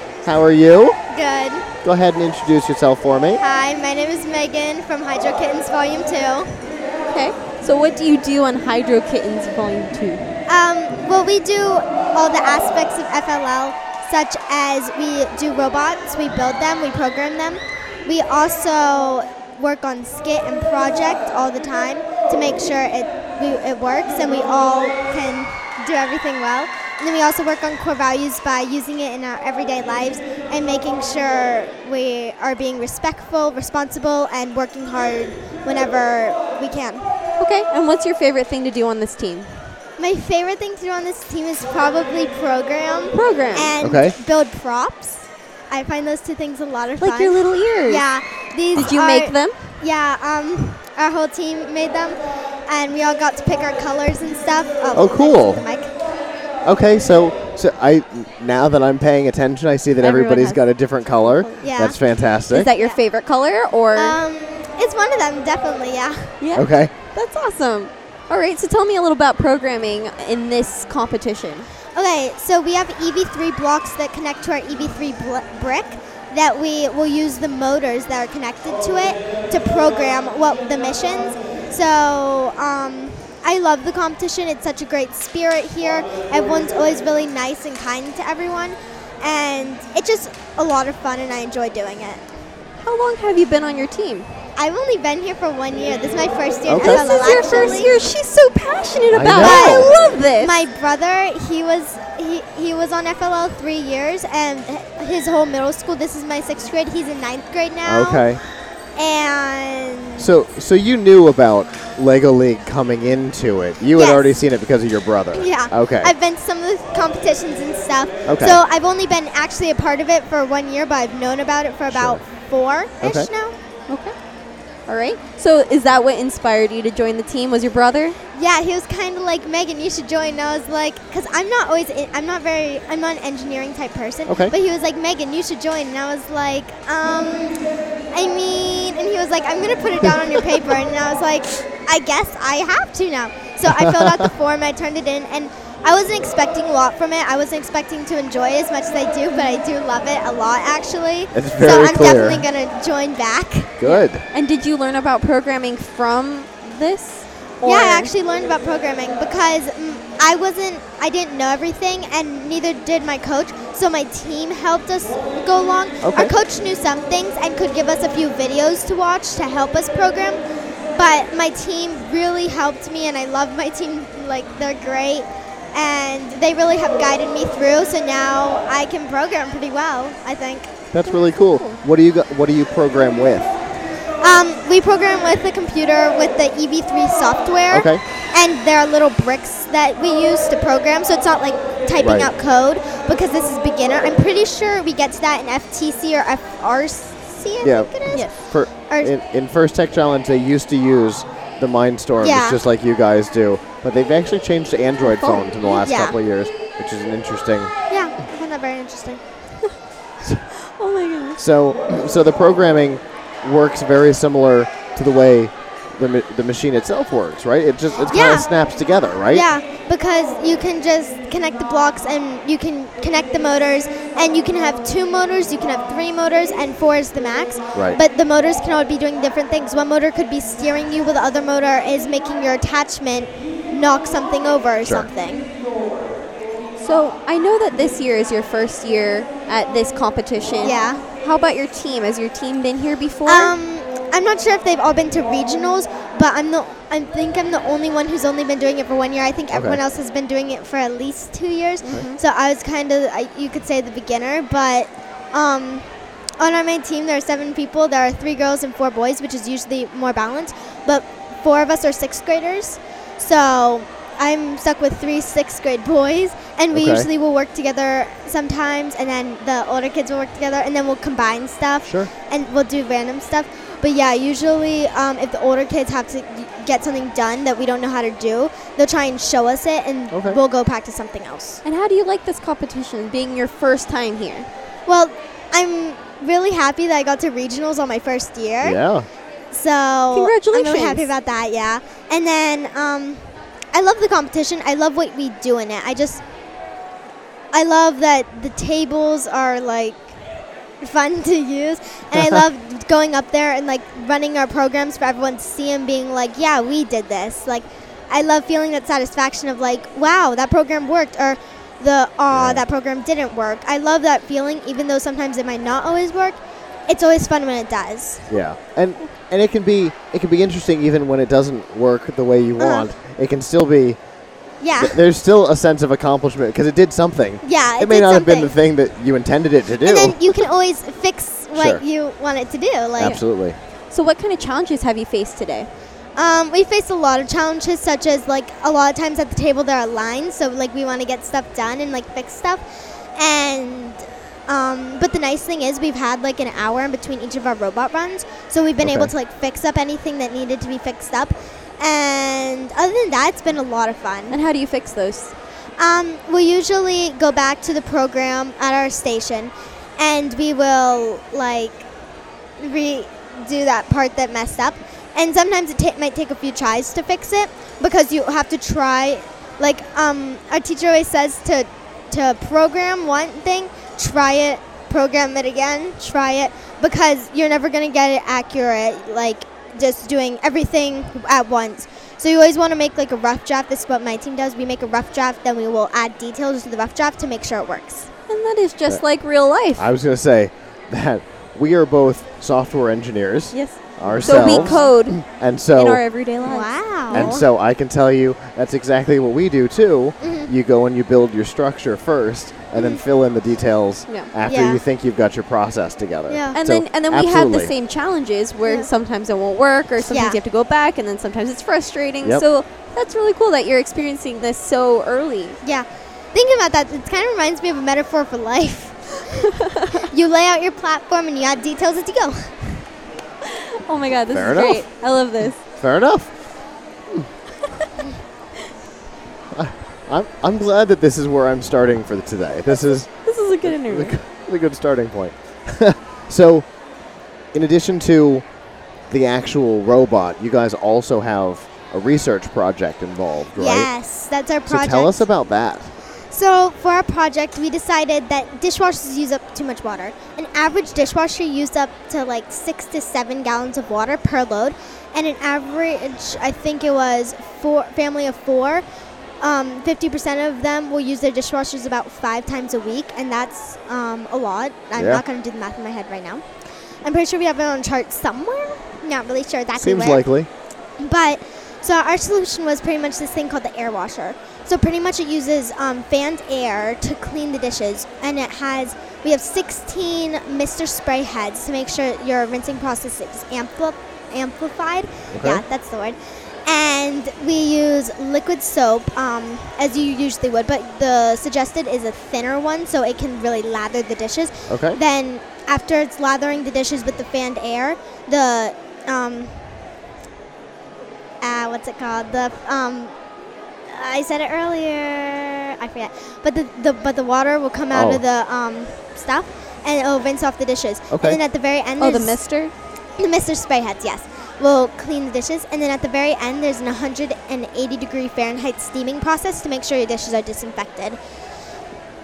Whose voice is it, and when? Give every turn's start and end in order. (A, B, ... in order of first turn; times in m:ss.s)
0:00.2-0:01.0 A
0:01.1-0:01.7 B
0:01.8-0:03.4 A
0:03.4-0:06.6 B
0:07.1-0:10.3 C
0:10.5-0:37.1 B
0:37.4-0:39.5 C
0:40.0-0:55.9 B
0:43.1-0:43.8 C
0:43.8-0:44.2 A
0:47.0-0:48.0 C
0:48.7-0:49.6 C
0:54.9-0:55.6 A
0:56.6-1:02.7 A
1:00.0-1:01.7 C
1:01.6-1:02.0 B
1:02.5-1:04.2 C
1:03.9-1:06.3 B
1:06.4-1:11.7 C
1:06.5-1:06.9 A
1:11.9-1:32.3 B
1:32.8-1:34.3 C
1:34.6-1:37.9 B
1:36.7-1:37.0 A
1:36.8-1:40.6 C
1:39.1-1:39.9 A
1:39.3-1:48.3 B
1:47.8-1:48.4 A
1:49.0-1:50.3 B
1:50.2-1:56.1 A
1:53.9-1:54.4 B
1:55.3-2:03.6 B
1:58.2-1:58.6 A
2:01.9-2:02.2 A
2:03.0-2:03.3 A
2:03.9-2:04.1 C
2:04.9-2:08.2 C
2:08.3-2:17.6 B
2:14.3-2:14.5 A
2:18.1-2:33.8 B
2:23.7-2:24.3 A
2:31.3-2:32.4 A
2:33.8-2:34.2 A
2:33.8-2:38.1 C
2:37.6-2:50.4 B
2:46.0-2:46.3 A
2:50.9-3:00.7 B
3:00.9-3:03.5 A
3:01.0-3:01.8 C
3:04.2-3:18.3 B
3:07.7-3:08.0 A
3:12.0-3:12.3 A
3:17.6-3:27.7 A
3:18.9-3:19.1 B
3:22.2-3:22.6 B
3:25.0-3:25.4 C
3:25.6-3:26.2 B
3:27.9-3:29.2 B
3:30.6-3:31.4 C
3:31.4-3:39.5 A
3:38.1-3:38.5 B
3:39.3-3:55.5 B
3:47.7-3:48.0 A
3:54.8-3:55.1 A
3:56.8-4:03.5 C
4:00.6-4:01.0 B
4:03.2-4:15.9 B
4:09.5-4:09.8 A
4:11.8-4:12.2 C
4:16.4-4:41.6 B
4:26.7-4:27.1 A
4:31.8-4:32.1 A
4:40.1-4:40.4 A
4:41.6-4:44.5 C
4:44.8-4:48.8 B
4:48.6-4:49.1 A
4:49.5-4:56.2 B
4:50.1-4:51.1 C
4:57.5-5:00.1 B
5:00.8-5:18.3 B
5:12.3-5:12.6 A
5:18.3-5:24.0 A
5:22.6-5:22.9 B
5:24.6-5:25.0 B
5:24.8-5:30.2 A
5:27.4-5:28.5 B
5:29.8-5:33.2 B
5:31.5-5:31.8 A
5:33.0-5:33.6 A
5:33.9-5:35.7 C
5:36.2-5:42.6 B
5:43.2-5:54.4 B
5:48.8-5:49.1 A
5:54.3-5:55.3 C
5:55.8-6:01.9 B
6:02.6-6:28.1 B
6:28.3-6:29.9 C
6:29.7-6:36.0 A
6:33.5-6:37.4 C
6:34.0-6:34.8 B
6:36.4-6:37.4 B
6:37.1-6:47.7 A
6:40.2-6:40.5 B
6:42.7-6:43.0 B
6:44.4-6:44.8 B
6:46.3-6:46.6 B
6:46.5-6:55.6 C
6:48.6-6:48.9 B
6:50.0-6:50.4 B
6:55.6-7:02.8 B
6:59.6-7:00.0 C
7:03.4-7:05.6 C
7:04.3-7:04.9 A
7:05.8-7:06.4 A
7:09.5-7:13.1 A
7:13.2-7:14.2 C
7:13.6-7:16.7 A
7:17.5-7:18.4 A
7:19.1-7:23.9 A
7:23.6-7:25.3 B
7:24.7-7:25.9 A
7:26.3-7:38.8 B
7:39.4-7:46.4 B
7:45.0-7:45.2 A
7:47.0-7:50.2 B
7:49.8-7:50.5 A
7:51.0-8:19.6 B
8:05.3-8:05.6 A
8:14.7-8:15.0 A
8:21.4-8:23.1 B
8:23.9-8:32.4 B
8:27.9-8:28.2 A
8:31.1-8:31.4 A
8:32.0-8:32.7 C
8:33.2-8:41.2 B